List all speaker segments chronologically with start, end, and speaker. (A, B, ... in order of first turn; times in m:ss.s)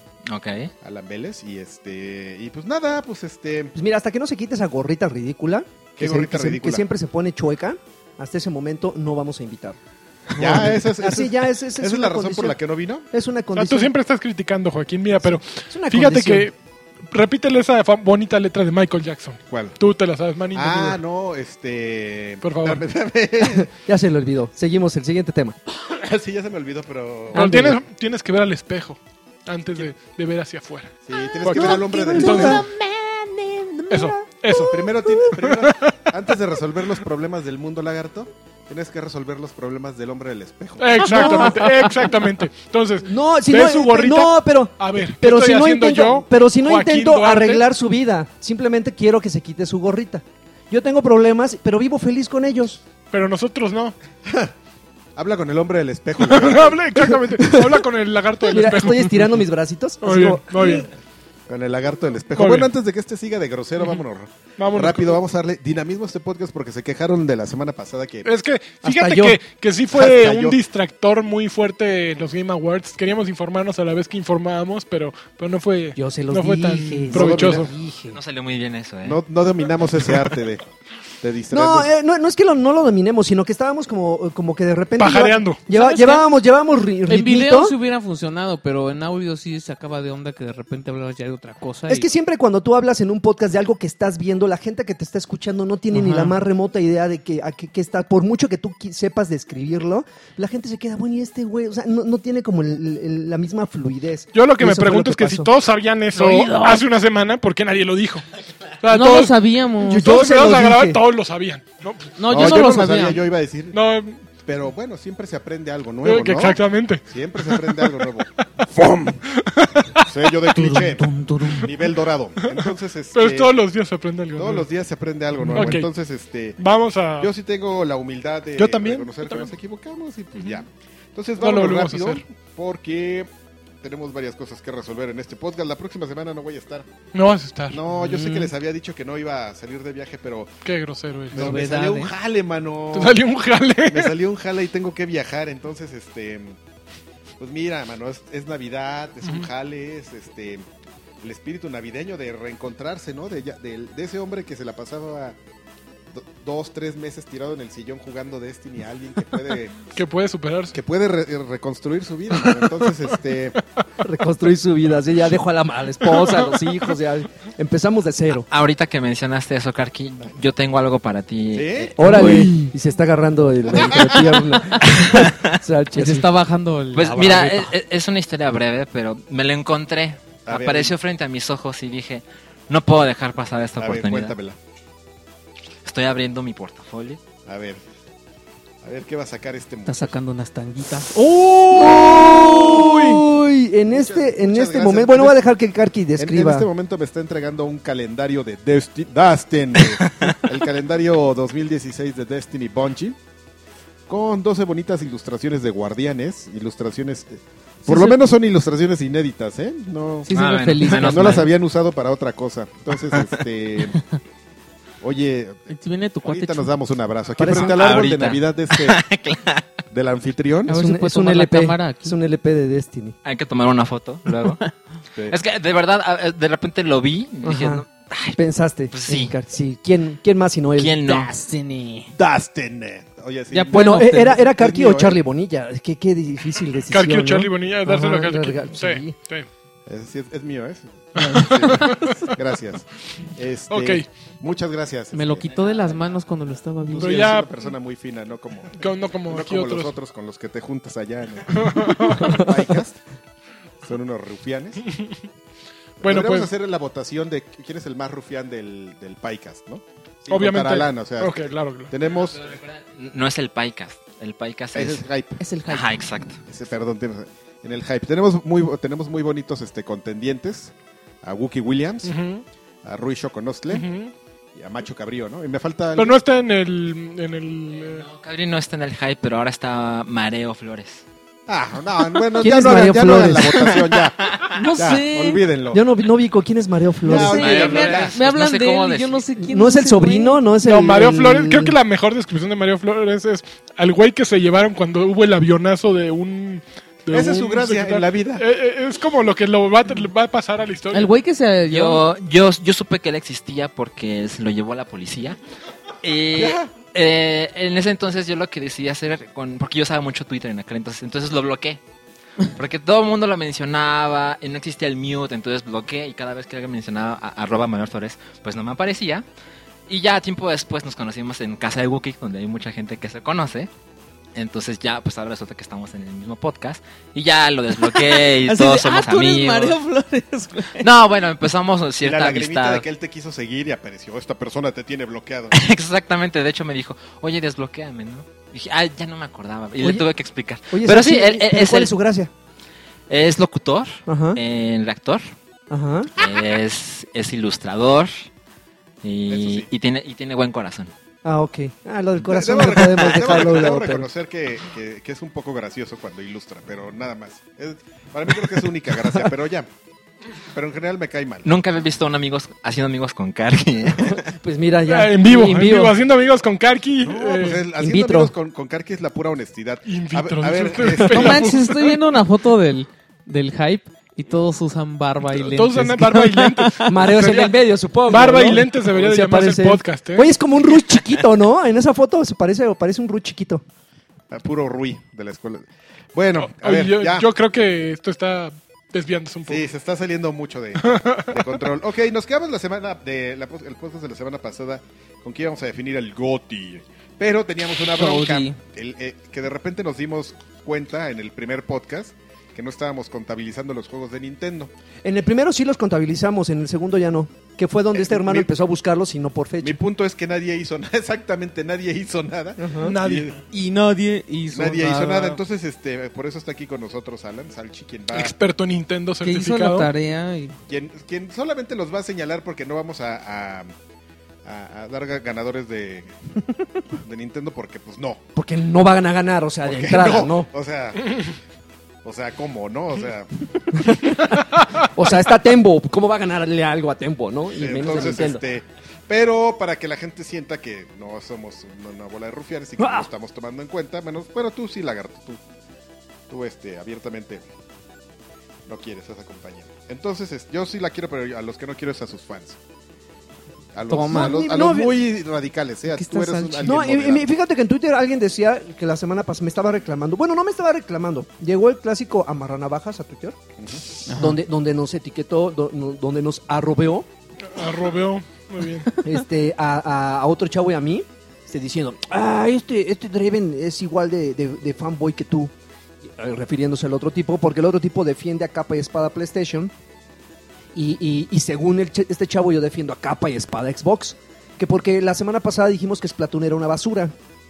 0:00.3-0:00.7 A
0:00.8-0:03.7 B
0:03.8-0:09.8 C
0:06.0-0:06.9 B
0:10.3-0:12.6 C
0:10.4-0:13.1 B
0:13.1-0:13.9 C
0:13.5-0:16.6 D
0:15.2-0:16.5 C
0:17.1-0:21.0 D
0:19.5-0:19.8 B
0:20.5-0:23.7 B
0:22.4-0:22.8 D
0:23.5-0:25.6 C
0:25.8-0:27.7 B
0:27.3-0:32.7 D
0:27.3-0:27.8 E
0:27.4-0:27.8 C
0:31.0-0:33.5 B
0:31.2-0:32.7 C
0:33.4-0:35.3 C
0:33.9-0:36.1 D
0:34.6-0:41.4 B
0:40.8-0:47.7 D
0:41.0-0:41.7 C
0:41.1-0:41.9 E
0:43.0-0:52.8 C
0:53.1-0:53.9 D
0:54.2-0:54.5 B
0:55.2-0:56.8 B
0:56.2-0:59.4 D
0:57.4-0:57.8 C
0:58.5-1:00.9 C
1:00.0-1:00.9 D
1:01.5-1:08.3 B
1:02.3-1:02.7 D
1:04.6-1:05.2 D
1:08.2-1:17.7 D
1:08.8-1:09.4 C
1:09.9-1:10.6 B
1:16.0-1:18.2 C
1:17.1-1:17.7 B
1:18.1-1:19.2 A
1:19.0-1:20.6 B
1:21.2-1:21.9 B
1:21.5-1:27.7 C
1:25.0-1:25.8 D
1:25.7-1:26.2 E
1:27.0-1:32.1 E
1:31.9-1:45.5 C
1:35.9-1:36.4 E
1:44.3-1:48.2 D
1:46.1-1:46.8 E
1:48.8-1:49.4 D
1:48.8-1:50.1 E
1:49.8-1:51.0 C
1:49.9-1:52.2 D
1:52.2-1:53.2 E
1:52.3-1:53.8 B
1:53.7-1:54.2 D
1:54.4-1:59.2 B
1:56.0-1:58.1 D
1:59.2-2:00.7 D
2:00.0-2:03.5 B
2:00.5-2:01.7 E
2:02.4-2:04.6 D
2:04.4-2:06.6 B
2:05.4-2:05.7 E
2:05.5-2:05.9 D
2:06.6-2:07.3 D
2:07.2-2:13.3 B
2:08.6-2:09.5 D
2:11.4-2:12.2 D
2:13.8-2:16.9 B
2:17.1-2:18.5 D
2:17.7-2:20.5 B
2:20.6-2:21.5 D
2:21.3-2:23.2 B
2:21.3-2:22.1 E
2:22.9-2:24.1 D
2:23.8-2:26.6 B
2:27.4-2:30.6 B
2:31.2-2:35.4 B
2:36.1-2:39.8 B
2:39.9-2:40.8 D
2:40.7-2:43.6 B
2:42.4-2:42.8 D
2:44.0-2:48.5 C
2:46.1-2:46.5 D
2:48.5-2:52.4 A
2:51.5-2:52.0 B
2:52.0-2:56.3 C
2:52.0-2:52.7 E
2:53.7-2:55.5 A
2:55.9-2:57.7 E
2:56.9-3:04.3 A
3:00.4-3:01.0 B
3:03.8-3:04.6 B
3:05.8-3:07.2 A
3:07.4-3:07.8 B
3:08.8-3:10.1 B
3:09.8-3:11.1 E
3:11.1-3:13.2 D
3:11.7-3:16.7 C
3:13.9-3:15.4 B
3:16.2-3:23.2 B
3:24.1-3:30.3 B
3:27.8-3:28.2 E
3:30.2-3:31.5 E
3:30.3-3:31.5 A
3:30.8-3:34.0 B
3:35.0-3:35.7 B
3:35.7-3:36.7 E
3:36.2-3:39.0 B
3:37.4-3:38.1 C
3:37.4-3:39.7 A
3:39.9-3:40.8 B
3:40.7-3:42.2 E
3:40.7-3:43.2 C
3:43.2-3:44.7 A
3:45.3-3:48.4 A
3:47.4-3:47.8 C
3:48.4-3:50.9 C
3:48.9-3:49.3 A
3:50.7-3:51.3 A
3:51.0-3:52.1 E
3:52.1-3:55.2 B
3:53.5-3:54.4 E
3:53.7-3:59.2 C
3:56.9-3:59.5 D
3:59.8-4:05.5 B
4:01.2-4:02.3 D
4:01.2-4:02.2 E
4:03.7-4:04.1 D
4:05.1-4:07.4 E
4:05.5-4:06.2 A
4:06.9-4:13.0 B
4:07.0-4:07.7 D
4:08.8-4:09.9 D
4:11.5-4:12.5 D
4:13.8-4:14.8 B
4:14.8-4:15.2 D
4:16.0-4:22.4 B
4:16.0-4:16.5 D
4:20.3-4:21.9 D
4:22.0-4:25.0 A
4:24.7-4:25.4 B
4:25.4-4:26.0 E
4:25.7-4:26.4 A
4:26.5-4:32.1 B
4:32.0-4:32.4 D
4:32.8-4:33.9 B
4:33.7-4:34.1 D
4:34.5-4:36.2 B
4:35.9-4:38.0 D
4:37.8-4:41.0 A
4:41.5-4:45.8 B
4:42.4-4:43.7 C
4:44.4-4:45.4 E
4:45.7-4:47.5 C
4:47.0-4:48.2 B
4:47.0-4:50.4 E
4:47.2-4:49.3 A
4:49.4-4:51.7 C
4:50.6-5:01.1 D
4:57.1-4:58.4 B
5:00.9-5:02.0 E
5:01.7-5:05.4 A
5:06.0-5:11.8 A
5:06.3-5:06.7 B
5:12.4-5:19.2 A
5:19.9-5:23.7 A
5:24.3-5:29.8 A
5:27.8-5:30.9 E
5:30.8-5:32.8 A
5:32.0-5:35.6 B
5:35.5-5:42.0 A
5:39.8-5:40.0 C
5:40.7-5:42.3 C
5:43.1-5:45.2 A
5:44.1-5:44.4 C
5:45.7-5:46.1 C
5:46.2-5:48.2 A
5:49.0-5:50.9 A
5:49.3-5:49.7 B
5:51.2-5:54.1 C
5:52.2-5:59.7 B
6:00.5-6:01.5 B
6:01.4-6:04.3 A
6:04.3-6:06.0 C
6:04.8-6:07.7 D
6:07.0-6:11.6 B
6:07.8-6:08.3 C
6:09.8-6:12.0 D
6:11.0-6:17.0 E
6:15.2-6:20.3 D
6:16.9-6:23.6 C
6:24.3-6:27.3 B
6:26.4-6:29.6 D
6:29.5-6:44.7 B
6:30.8-6:31.5 D
6:37.8-6:38.6 E
6:45.0-6:49.8 C
6:47.9-6:48.5 B
6:49.6-6:53.4 B
6:52.6-6:52.9 C
6:52.8-6:53.3 D
6:53.5-6:55.4 E
6:54.5-6:58.3 B
6:58.1-6:59.9 D
6:59.2-7:00.6 E
7:00.7-7:03.7 B
7:04.4-7:06.1 B
7:06.9-7:08.2 B
7:08.3-7:10.5 C
7:09.6-7:11.2 B
7:12.0-7:13.9 B
7:13.7-7:18.4 C
7:14.3-7:14.6 D
7:17.5-7:25.4 B
7:22.8-7:23.0 C
7:26.3-7:27.4 B
7:28.6-7:32.6 B
7:33.7-7:37.3 B
7:33.9-7:34.4 E
7:34.1-7:34.9 C
7:35.9-7:36.8 E
7:36.6-7:43.4 C
7:44.0-7:44.4 E
7:44.1-7:47.1 C
7:47.5-7:48.9 D
7:49.0-7:55.5 C
7:56.1-7:59.7 C
8:00.7-8:07.1 C